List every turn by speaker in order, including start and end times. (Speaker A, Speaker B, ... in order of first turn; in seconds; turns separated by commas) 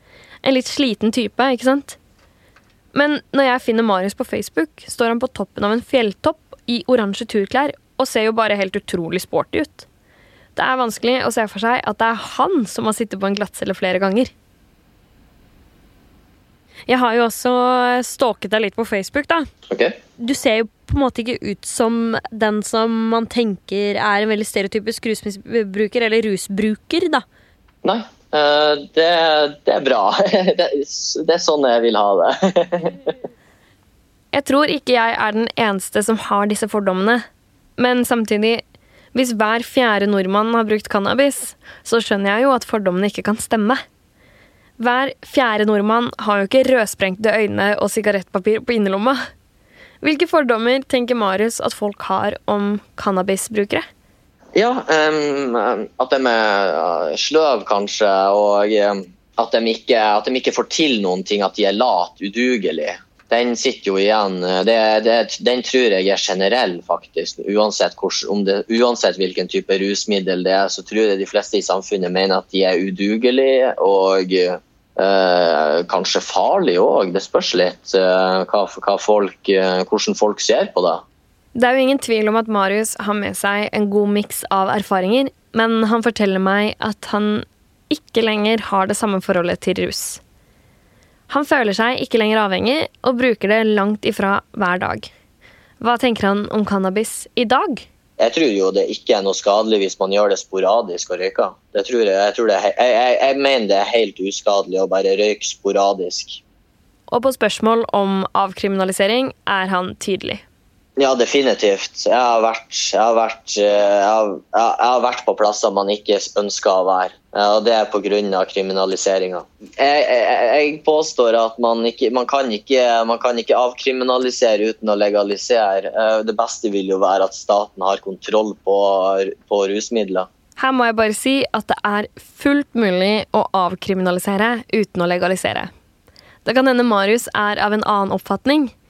Speaker A: 0.4-2.0, Speaker A: 2.9-9.9, Speaker A: 10.5-14.3, Speaker A: 16.9-19.5, Speaker B: 19.7-20.0, Speaker A: 20.2-27.2, Speaker B: 27.8-32.9, Speaker A: 34.3-37.2, Speaker A: 37.8-38.6, Speaker A: 39.1-43.8, Speaker A: 44.8-49.2, Speaker A: 50.0-53.8, Speaker B: 54.5-81.0, Speaker A: 81.5-90.2, Speaker A: 91.3-95.1, Speaker A: 95.8-97.8, Speaker B: 98.2-106.4, Speaker A: 107.1-110.4, Speaker B: 111.0-130.3, Speaker A: 130.6-135.7, Speaker A: 136.4-138.7